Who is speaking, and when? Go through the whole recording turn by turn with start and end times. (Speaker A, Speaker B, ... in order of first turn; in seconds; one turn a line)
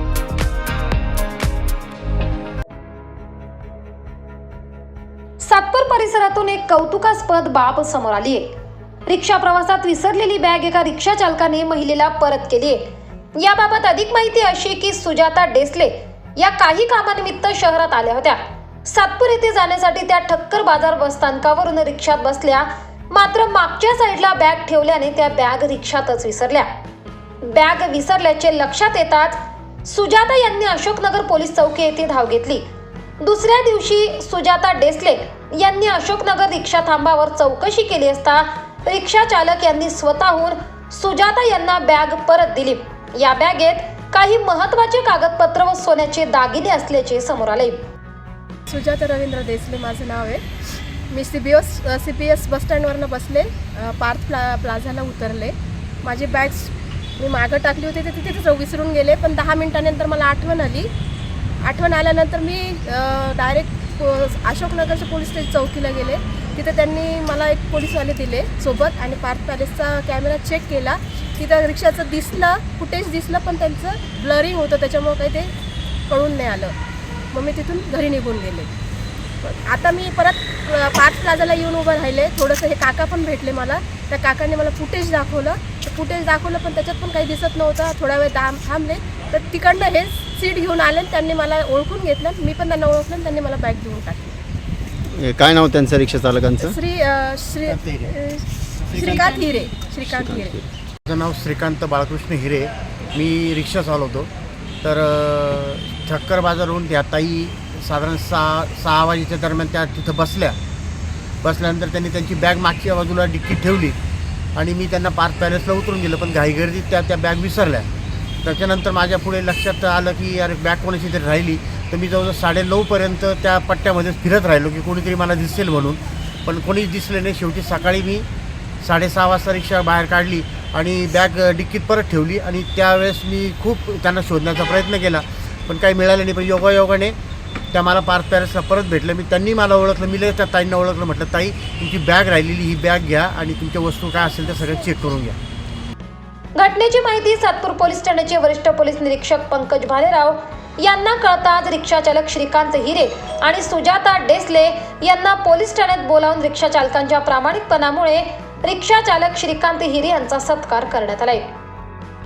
Speaker A: 5.4-8.5
Speaker A: 9.1-12.8
Speaker A: 13.4-26.7
Speaker A: 27.4-32.6
Speaker A: 33.2-47.8
Speaker B: 48.7-50.4
Speaker B: 51.1-60.9
Speaker B: 61.6-75.5
Speaker B: 76.1-76.7
Speaker B: 77.3-78.7
Speaker B: 79.4-94.4
Speaker C: 95.2-96.8
Speaker B: 96.6-100.6
Speaker C: 100.1-100.5
Speaker D: 101.1-104.3
Speaker D: 104.8-110.6
Speaker D: 111.4-114.0
Speaker D: 114.6-117.9
Speaker D: 118.4-128.3
Speaker D: 128.8-137.2
Speaker D: 137.7-145.4
Speaker A: 146.6-161.5